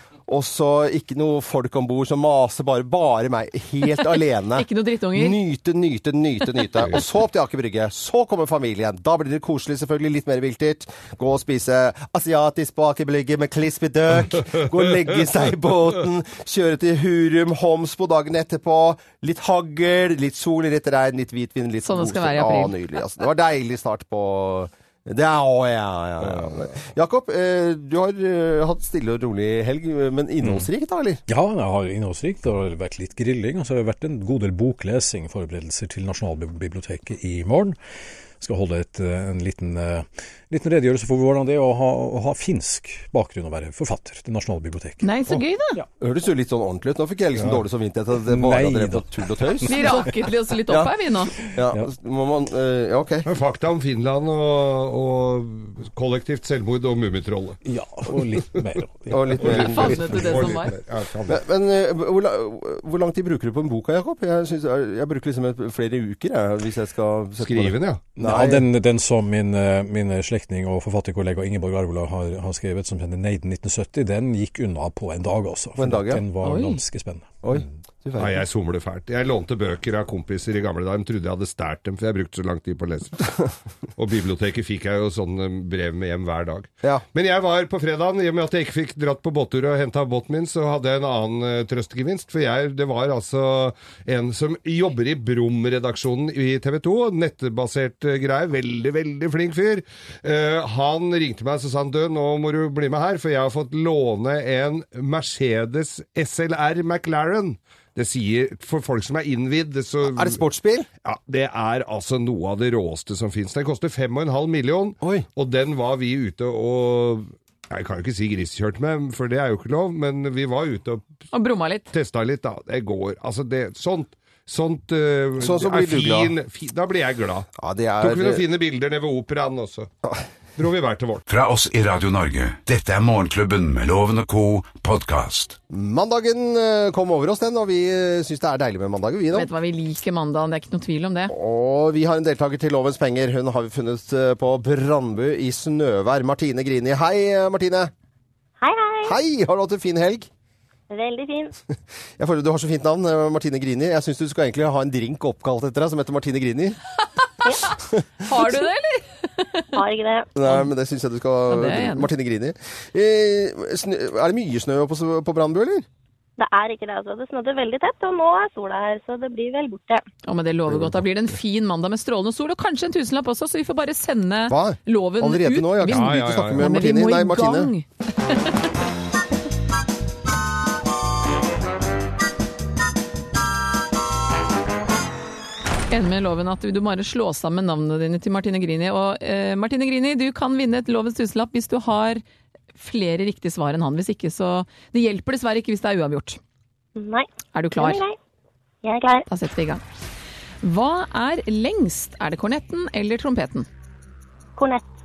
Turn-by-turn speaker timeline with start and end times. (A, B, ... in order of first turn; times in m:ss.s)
0:00.3-0:31.2 A
0:04.0-0:05.4 B
0:21.8-0:22.8 B
0:31.3-0:37.8 C
0:38.4-0:45.1 C
0:45.0-0:45.8 B
0:46.0-0:50.0 A
0:48.3-0:50.0 C
0:49.7-0:51.4 B
0:51.5-0:53.3 A
0:51.6-0:51.9 C
0:53.2-0:57.6 D
0:57.6-1:00.6 C
0:59.1-1:00.4 A
0:59.4-1:01.4 D
0:59.4-1:00.7 B
1:01.3-1:08.7 A
1:07.4-1:08.0 D
1:08.2-1:17.4 C
1:15.8-1:16.2 A
1:16.4-1:16.8 B
1:17.4-1:18.4 A
1:18.2-1:23.4 D
1:24.0-1:50.4 D
1:50.0-1:50.9 A
1:51.0-2:01.1 D
1:55.0-1:55.3 A
2:01.3-2:01.9 B
2:01.9-2:07.5 D
2:05.4-2:06.3 A
2:07.6-2:08.4 A
2:08.0-2:09.9 D
2:10.6-2:11.2 D
2:11.3-2:15.6 E
2:15.7-2:19.5 A
2:19.3-2:21.3 B
2:21.3-2:27.9 A
2:28.6-2:29.2 F
2:29.0-2:30.3 A
2:30.9-2:31.6 F
2:32.2-2:36.8 A
2:37.4-2:39.8 B
2:39.7-2:40.3 F
2:40.4-2:45.9 A
2:41.5-2:42.1 B
2:46.4-2:50.1 F
2:50.3-2:58.6 B
2:54.5-2:57.7 A
2:55.9-2:56.7 D
3:05.9-3:12.2 B
3:12.8-3:16.4 B
3:17.0-3:18.2 F
3:17.5-3:18.0 B
3:18.8-3:19.2 F
3:19.3-3:19.8 B
3:20.6-3:23.7 B
3:24.6-3:24.9 F